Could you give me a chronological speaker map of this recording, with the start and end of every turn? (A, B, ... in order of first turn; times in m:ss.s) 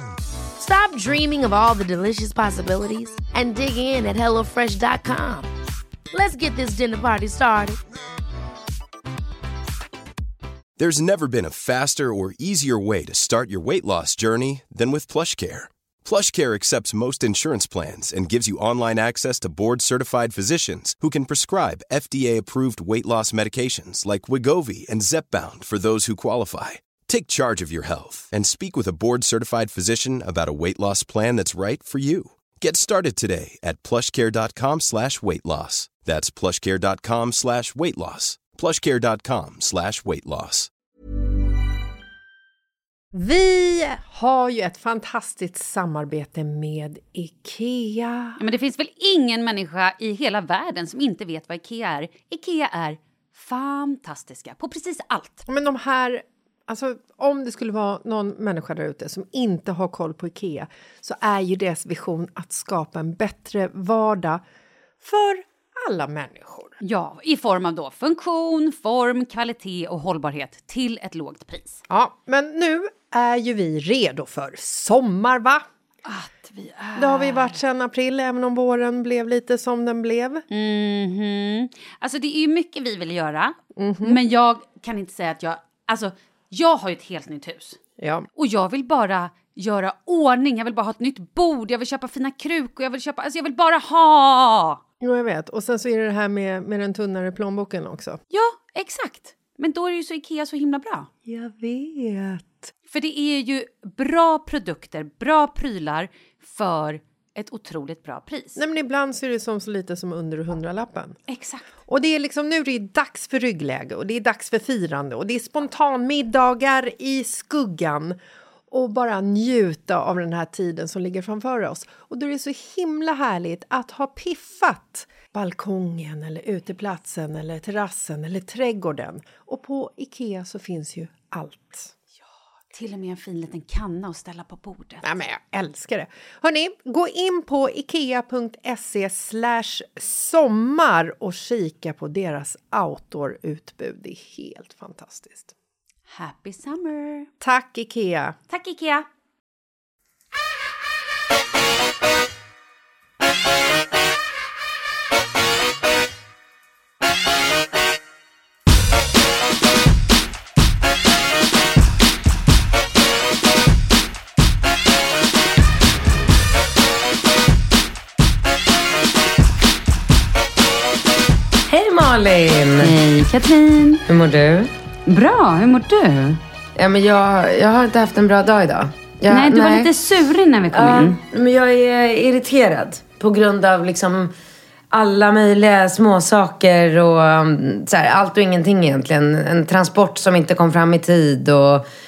0:00.6-0:05.5 A
0:06.1-0:07.8 A
0:10.8-0:40.7 B
0:43.1-0:48.4 C
0:48.4-0:55.4 D
0:55.5-1:04.4 C
1:05.0-1:06.8 C
1:06.8-1:11.8 D
1:11.9-1:15.6 C
1:16.1-1:17.6 D
1:17.0-1:20.4 C
1:20.5-1:27.8 D
1:23.8-1:24.2 C
1:28.0-1:28.3 C
1:28.4-1:34.8 D
1:35.0-1:38.2 C
1:38.3-1:41.1 D
1:41.3-1:42.7 C
1:42.9-1:48.6 D
1:48.6-1:51.2 C
1:51.3-1:51.6 D
1:51.9-1:58.2 C
1:58.7-2:11.9 C
2:12.7-2:15.0 D
2:15.0-2:25.5 C
2:26.1-2:27.3 D
2:27.4-2:28.4 C
2:28.5-2:29.1 D
2:51.7-2:52.9 E
2:52.8-2:54.0 D
2:54.1-2:54.7 E
2:55.1-2:56.4 D
2:56.8-2:59.9 E
2:59.3-3:01.2 D
3:00.7-3:04.3 E
3:04.9-3:11.8 E